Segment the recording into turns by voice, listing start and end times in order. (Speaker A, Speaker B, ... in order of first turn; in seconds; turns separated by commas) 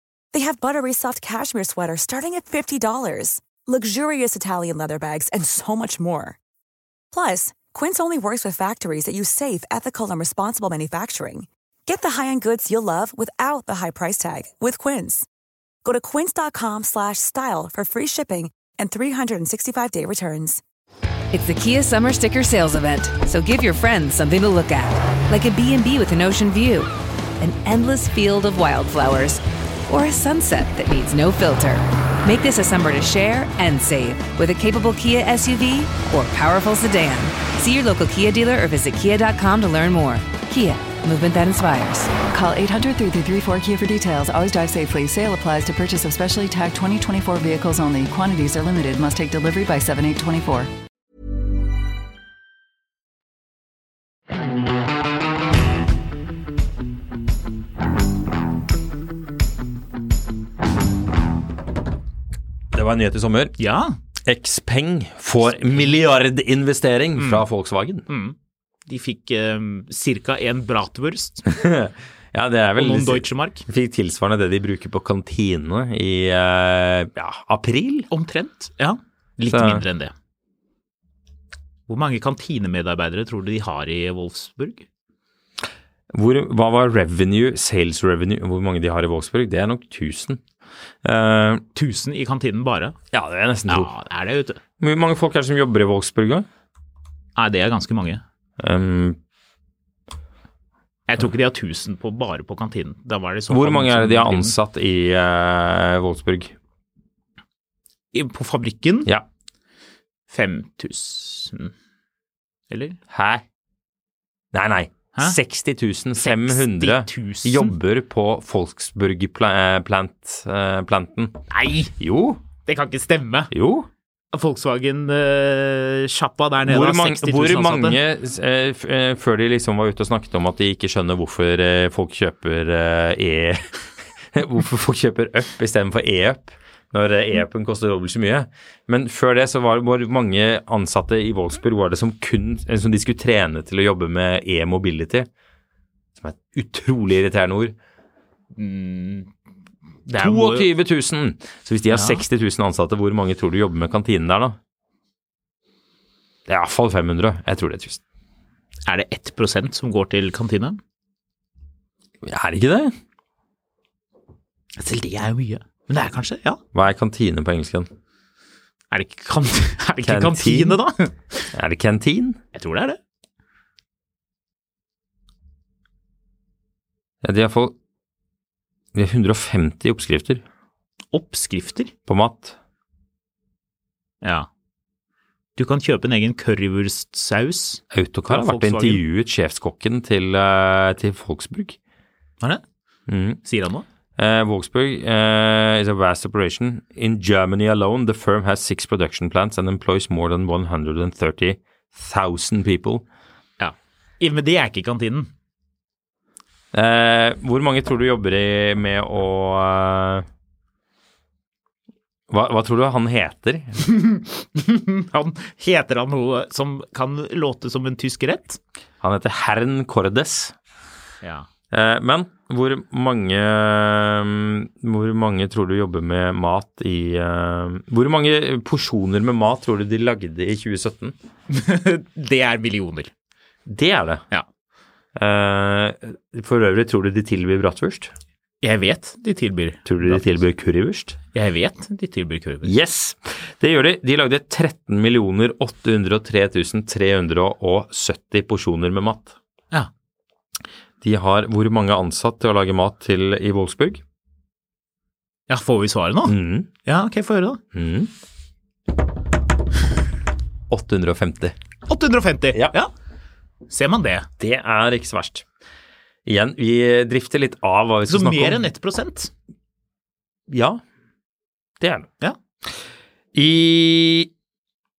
Speaker A: 0.3-6.4, Speaker A: 7.1-15.3, Speaker A: 15.8-20.6, Speaker B: 21.3-26.9, Speaker B: 27.4-42.2, Speaker C: 42.3-50.7, Speaker D: 62.7-63.6, Speaker E: 63.6-64.0, Speaker D: 64.2-68.0, Speaker E: 67.2-67.5, Speaker E: 68.1-71.4, Speaker D: 71.4-78.1, Speaker E: 72.8-73.6, Speaker E: 78.1-80.1, Speaker D: 79.5-79.8, Speaker E: 81.9-84.8, Speaker D: 86.1-90.4, Speaker D: 91.0-91.6, Speaker E: 91.7-93.0, Speaker D: 93.1-93.9, Speaker E: 93.7-94.6, Speaker D: 94.8-96.5, Speaker E: 97.3-98.2, Speaker D: 98.6-99.2, Speaker E: 101.1-104.5, Speaker D: 103.5-106.5, Speaker E: 108.1-109.1, Speaker E: 110.3-111.7, Speaker E: 112.7-113.0, Speaker D: 113.1-113.4, Speaker D: 114.5-121.4, Speaker E: 116.2-117.7, Speaker E: 121.5-121.9, Speaker D: 122.0-122.4, Speaker E: 122.6-123.5, Speaker D: 123.5-123.9, Speaker E: 124.3-128.0, Speaker D: 126.6-145.3, Speaker D: 146.2-147.7, Speaker E: 148.5-149.3, Speaker E: 150.1-150.7, Speaker D: 150.2-154.6, Speaker E: 151.9-152.2, Speaker D: 156.5-158.0, Speaker E: 158.9-160.8, Speaker D: 162.2-162.9, Speaker E: 164.8-166.6, Speaker D: 166.7-167.9, Speaker E: 168.9-171.5, Speaker D: 170.0-170.8, Speaker D: 171.5-172.4, Speaker E: 172.5-173.0, Speaker D: 177.2-177.7, Speaker D: 178.9-180.4, Speaker E: 181.1-181.9, Speaker D: 182.1-182.6, Speaker E: 184.2-184.5, Speaker E: 185.6-189.0, Speaker D: 187.9-191.8, Speaker D: 193.1-193.4, Speaker E: 193.4-193.8, Speaker D: 194.2-203.0, Speaker E: 203.6-205.3, Speaker D: 206.7-210.2, Speaker D: 212.3-213.8, Speaker E: 213.8-218.6, Speaker D: 219.0-220.6, Speaker E: 221.2-221.5, Speaker D: 221.7-231.1, Speaker E: 231.5-233.1, Speaker D: 233.7-234.2, Speaker D: 235.1-238.1, Speaker E: 238.6-240.3, Speaker D: 239.8-241.2, Speaker E: 241.3-242.7, Speaker D: 242.6-249.3, Speaker D: 251.0-254.0, Speaker E: 255.5-257.6, Speaker D: 256.2-256.7, Speaker D: 257.7-258.1, Speaker D: 260.7-261.6, Speaker E: 261.9-262.9, Speaker E: 263.7-264.3, Speaker D: 264.4-265.4, Speaker D: 266.2-268.6, Speaker E: 268.1-269.3, Speaker D: 270.5-270.8, Speaker D: 271.8-272.1, Speaker D: 273.3-274.3